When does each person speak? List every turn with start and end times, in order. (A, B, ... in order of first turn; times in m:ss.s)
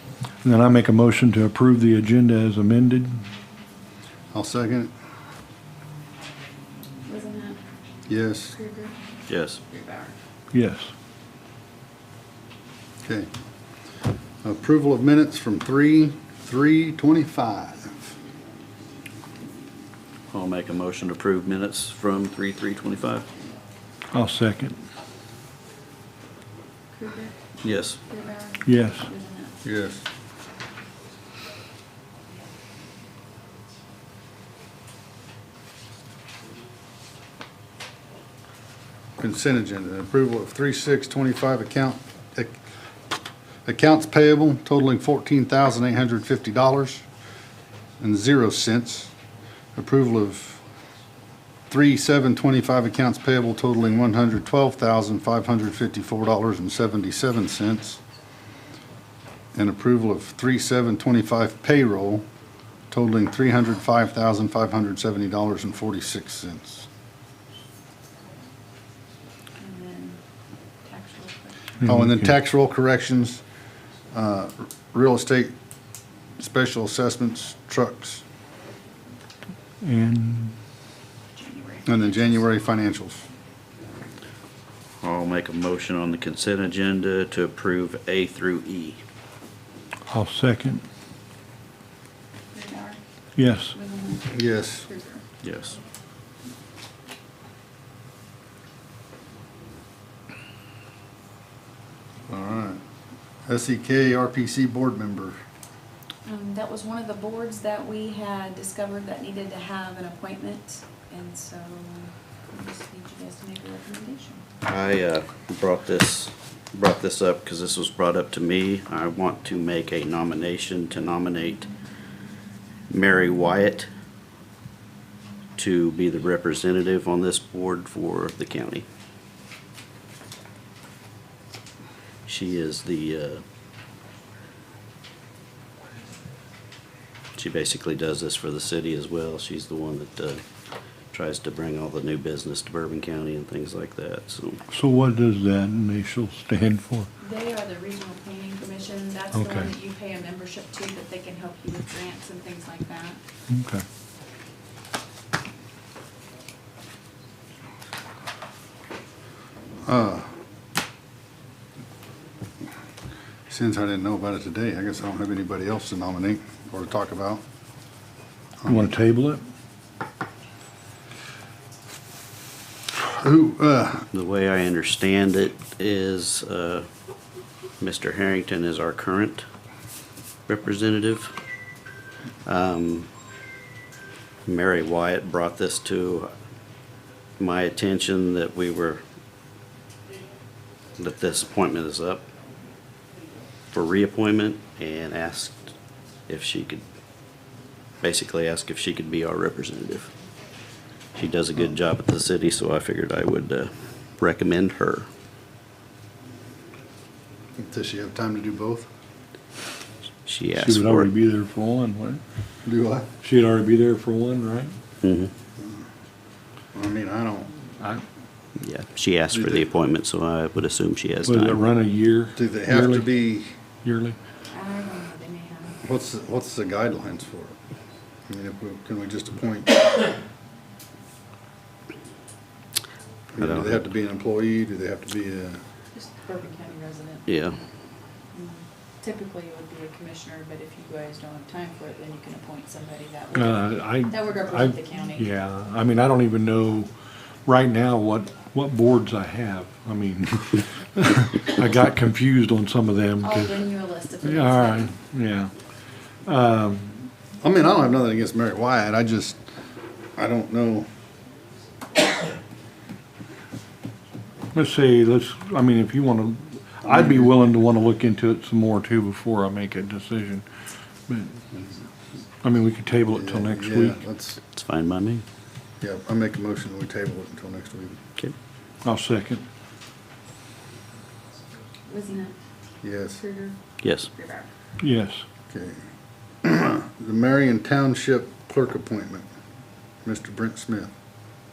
0:00.4-0:03.2 A
0:04.3-0:04.9 B
0:07.0-0:07.6 C
0:08.1-0:08.6 B
0:08.5-0:08.9 C
0:09.3-0:09.6 D
0:09.7-0:10.2 C
0:10.5-0:10.9 A
0:14.4-0:18.0 B
0:20.3-0:23.3 D
0:24.1-0:24.8 A
0:26.9-0:27.3 C
0:27.6-0:28.0 D
0:28.1-0:29.6 C
0:28.6-0:29.1 A
0:29.6-0:30.0 B
0:39.2-0:42.6 B
0:43.6-0:47.0 B
0:48.0-0:49.1 B
0:49.8-0:50.6 B
0:51.7-0:58.0 B
0:59.5-1:02.2 B
1:02.9-1:06.9 B
1:09.6-1:10.2 C
1:10.8-1:11.8 C
1:11.8-1:12.3 A
1:11.8-1:13.4 B
1:14.1-1:15.5 B
1:16.4-1:18.2 B
1:19.8-1:20.6 A
1:21.3-1:22.4 C
1:21.8-1:23.2 B
1:25.0-1:29.0 D
1:30.1-1:30.8 A
1:32.5-1:33.0 C
1:33.4-1:33.8 A
1:33.7-1:35.2 C
1:34.3-1:34.9 B
1:35.4-1:35.8 D
1:42.3-1:42.8 B
1:43.4-1:45.4 B
1:46.3-1:54.4 C
1:54.6-2:01.7 D
2:02.9-2:03.9 D
2:05.6-2:08.8 D
2:12.3-2:13.4 D
2:17.4-2:20.4 D
2:21.1-2:24.6 D
2:24.7-2:27.1 A
2:27.2-2:33.2 C
2:29.3-2:29.7 A
2:33.5-2:33.8 A
2:39.8-2:40.3 B
2:43.5-2:47.4 B
2:48.6-2:48.9 B
2:48.7-2:49.4 A
2:52.9-2:54.1 B
2:54.1-2:56.9 D
2:57.8-2:59.4 D
3:00.5-3:01.3 D
3:02.4-3:03.1 D
3:04.5-3:06.3 D
3:07.4-3:09.0 D
3:11.0-3:12.2 D
3:13.7-3:15.7 D
3:16.3-3:16.8 D
3:18.0-3:20.1 D
3:21.1-3:25.1 D
3:27.6-3:28.9 B
3:30.2-3:31.1 D
3:30.6-3:32.2 A
3:32.6-3:33.1 B
3:33.2-3:34.7 A
3:35.0-3:35.3 D
3:36.7-3:37.5 B
3:37.8-3:38.0 A
3:38.6-3:41.6 D
3:39.3-3:39.7 B
3:41.2-3:43.1 A
3:42.4-3:43.5 B
3:43.8-3:44.2 A
3:44.5-3:45.8 C
3:45.8-3:47.6 B
3:48.3-3:49.9 B
3:53.3-3:55.6 B
3:53.4-3:53.8 D
3:55.9-3:57.4 C
3:57.3-3:57.6 D
3:58.3-4:05.3 C
4:03.3-4:06.9 A
4:07.4-4:13.6 A
4:13.2-4:14.9 C
4:14.2-4:15.5 A
4:16.2-4:17.1 A
4:17.4-4:19.4 B
4:20.2-4:20.9 B
4:24.5-4:30.5 A
4:26.8-4:27.4 B
4:31.1-4:31.4 A
4:32.4-4:34.0 A
4:33.1-4:34.4 B
4:34.5-4:35.2 D
4:35.8-4:38.0 B
4:38.8-4:39.4 A
4:41.9-4:42.3 C
4:42.8-4:43.2 B
4:43.2-4:43.6 C
4:43.8-4:44.1 D
4:44.1-4:44.5 C
4:44.8-4:45.2 A
4:45.5-4:45.8 B
4:46.4-4:49.2 B
4:50.0-4:50.9 B